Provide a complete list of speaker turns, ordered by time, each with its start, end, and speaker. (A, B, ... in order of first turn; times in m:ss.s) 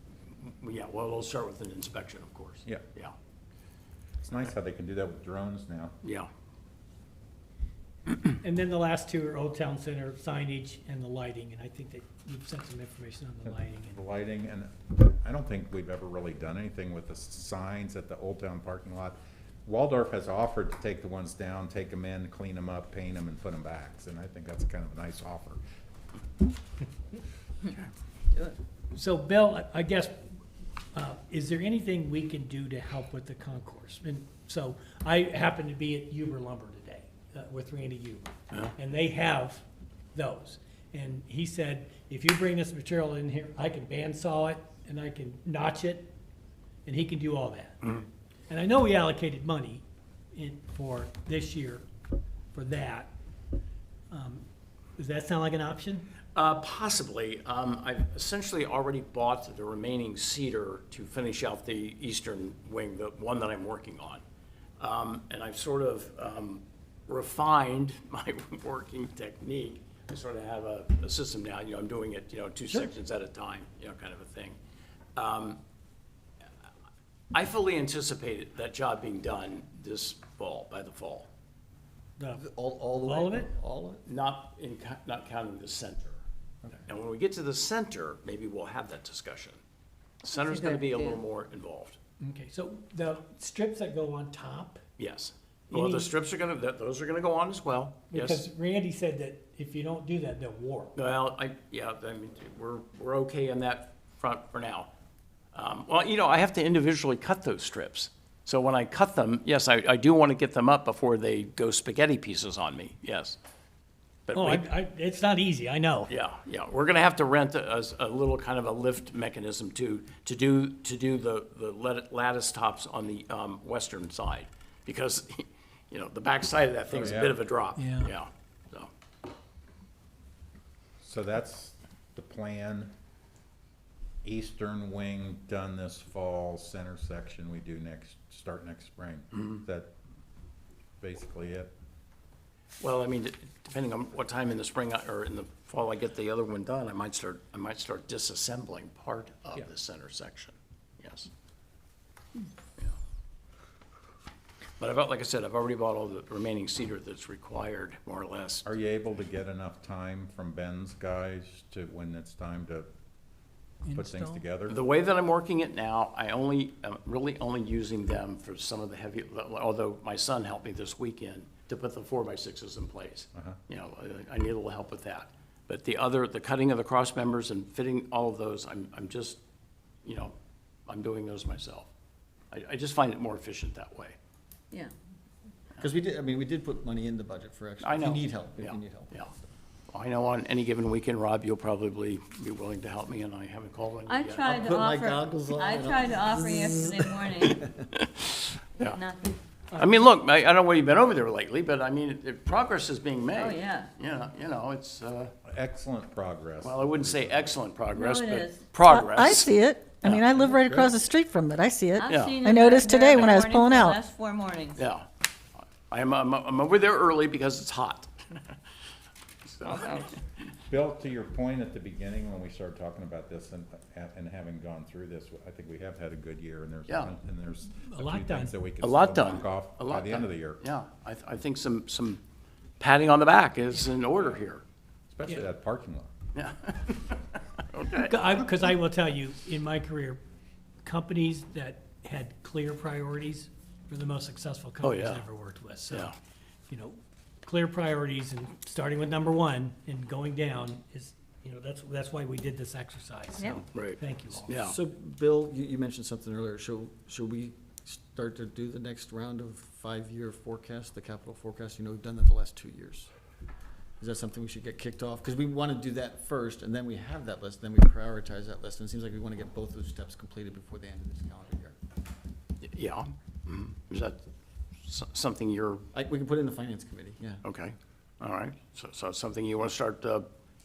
0:00.4-0:03.1 A
0:04.2-0:06.0 B
0:06.0-0:06.3 A
0:08.4-0:14.0 C
0:13.4-0:25.6 B
0:28.9-0:30.2 C
0:30.9-0:39.6 C
0:40.1-0:46.1 C
0:46.8-0:48.0 C
0:48.5-0:51.8 C
0:52.5-0:53.1 C
0:54.1-0:54.4 C
0:55.0-0:56.1 C
0:56.4-1:04.2 A
1:04.8-1:14.6 A
1:15.2-1:15.6 A
1:17.3-1:21.3 A
1:22.2-1:22.4 C
1:22.3-1:24.0 D
1:23.0-1:23.5 C
1:24.0-1:26.2 A
1:26.8-1:29.6 A
1:30.2-1:32.0 A
1:30.5-1:31.2 E
1:32.2-1:34.8 C
1:35.0-1:38.4 A
1:35.7-1:36.1 C
1:38.1-1:40.9 C
1:40.9-1:44.9 A
1:45.5-1:53.4 A
1:54.2-1:54.7 A
1:54.3-1:56.1 C
1:56.0-2:08.9 A
2:06.9-2:07.4 B
2:07.8-2:08.1 C
2:11.0-2:12.9 B
2:14.2-2:19.9 B
2:21.0-2:21.7 B
2:22.8-2:31.3 A
2:34.8-2:38.7 A
2:38.7-2:42.9 B
2:43.9-2:44.4 C
2:43.9-2:44.8 B
2:44.7-2:59.4 A
3:00.0-3:00.3 A
3:00.9-3:01.9 A
3:02.5-3:04.2 A
3:05.8-3:09.5 D
3:07.8-3:09.3 A
3:09.9-3:14.7 A
3:14.1-3:17.7 E
3:14.5-3:17.8 D
3:17.9-3:19.0 A
3:18.8-3:19.4 E
3:19.7-3:20.0 C
3:19.8-3:25.3 A
3:23.3-3:23.9 E
3:25.5-3:27.4 B
3:26.6-3:30.2 A
3:27.9-3:28.7 E
3:28.8-3:34.0 F
3:30.4-3:30.9 B
3:32.0-3:34.8 E
3:32.1-3:32.4 A
3:34.8-3:35.1 A
3:35.8-3:38.5 A
3:39.5-3:40.1 A
3:39.6-3:40.1 E
3:40.7-3:50.6 B
3:46.9-3:47.1 A
3:47.8-3:48.6 C
3:48.8-3:52.2 A
3:52.8-3:54.6 A
3:55.1-3:56.1 B
3:56.3-3:58.4 A
3:58.0-4:00.2 C
4:00.8-4:06.1 C
4:04.8-4:05.2 A
4:05.9-4:06.2 A
4:06.7-4:14.6 C
4:13.4-4:13.6 E
4:13.7-4:14.8 A
4:14.6-4:23.1 D
4:24.0-4:31.8 D
4:32.6-4:34.2 A
4:34.8-4:35.8 A
4:35.9-4:37.4 D
4:37.4-4:40.3 A